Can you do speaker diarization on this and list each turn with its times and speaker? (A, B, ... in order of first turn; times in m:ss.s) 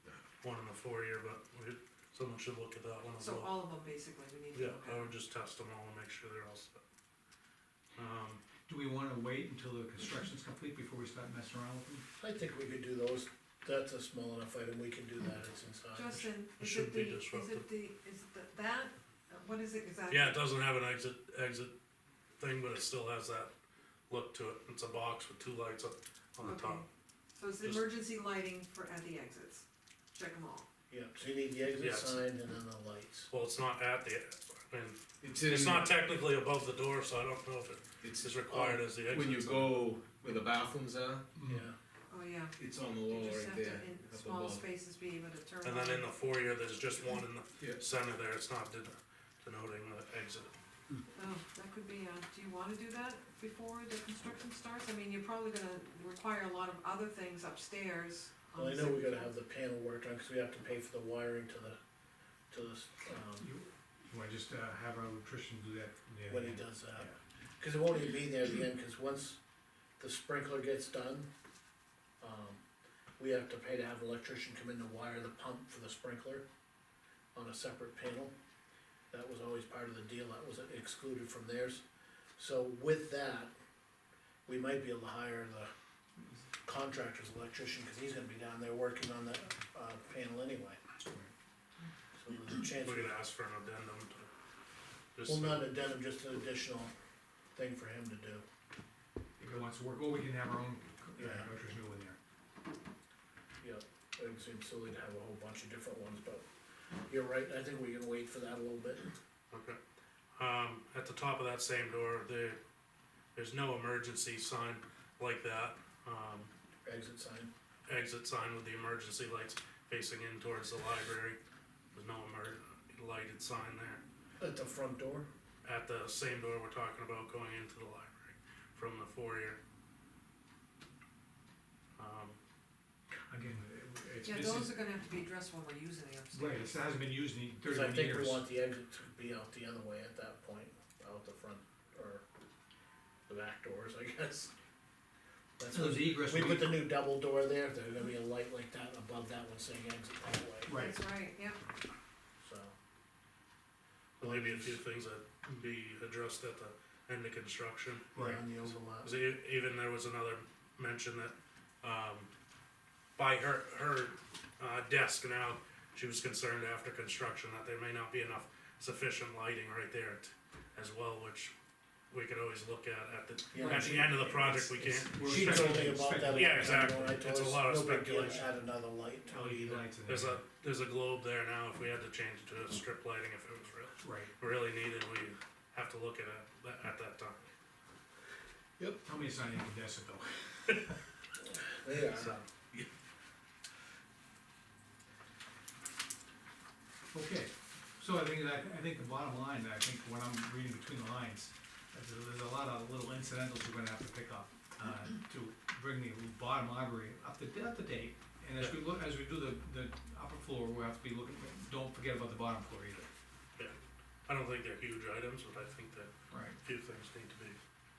0:00.4-0:03.5 A
0:03.2-0:05.1 B
0:04.5-0:06.8 A
0:08.0-0:08.4 A
0:08.6-0:12.0 C
0:12.2-0:16.2 D
0:15.9-0:20.5 B
0:16.1-0:17.6 A
0:20.1-0:21.7 A
0:22.4-0:23.5 A
0:24.1-0:26.8 A
0:26.4-0:30.7 B
0:30.9-0:33.3 D
0:31.8-0:32.2 A
0:33.3-0:39.7 A
0:35.2-0:35.9 E
0:38.0-0:41.2 E
0:38.5-0:38.8 D
0:41.4-0:41.6 C
0:41.5-0:41.7 D
0:42.1-0:46.1 B
0:42.6-0:44.6 E
0:45.6-0:50.5 A
0:51.1-0:59.3 B
0:58.6-1:01.8 D
1:02.5-1:03.5 D
1:03.4-1:07.2 C
1:06.3-1:07.1 D
1:07.6-1:09.4 D
1:10.0-1:11.3 D
1:12.2-1:12.6 D
1:13.2-1:16.4 D
1:17.3-1:18.3 D
1:19.1-1:21.8 D
1:22.4-1:23.5 D
1:24.4-1:25.7 D
1:26.6-1:30.8 D
1:32.2-1:33.1 D
1:32.8-1:34.3 A
1:35.1-1:35.7 A
1:35.2-1:36.9 D
1:37.5-1:38.4 D
1:39.4-1:42.2 C
1:41.2-1:41.5 D
1:43.6-1:46.4 D
1:47.1-1:49.1 D
1:49.5-1:49.8 A
1:50.3-1:52.6 A
1:53.3-1:56.5 A
1:56.8-1:57.5 D
1:57.9-2:01.4 A
2:01.9-2:04.0 A
2:04.4-2:05.3 D
2:05.6-2:09.6 A
2:12.0-2:12.4 A
2:13.1-2:14.8 C
2:14.2-2:16.8 B
2:16.3-2:18.4 C
2:17.7-2:22.2 D
2:23.3-2:24.5 D
2:25.6-2:30.8 D
2:25.7-2:26.9 C
2:30.6-2:31.0 C
2:30.7-2:31.6 B
2:32.4-2:32.7 D
2:34.2-2:38.2 A
2:34.2-2:34.8 D
2:38.1-2:38.4 C
2:38.1-2:39.1 D
2:38.9-2:42.3 A
2:43.2-2:51.5 A
2:52.1-2:58.5 A
2:53.5-2:59.8 D
2:53.6-2:54.0 C
2:54.9-2:56.9 C
2:59.3-3:00.4 C
3:00.1-3:07.4 A
3:04.0-3:04.3 C
3:09.0-3:11.0 C
3:11.4-3:12.4 D
3:12.1-3:12.9 A
3:17.1-3:33.1 C
3:34.2-3:37.6 A
3:36.3-3:36.6 C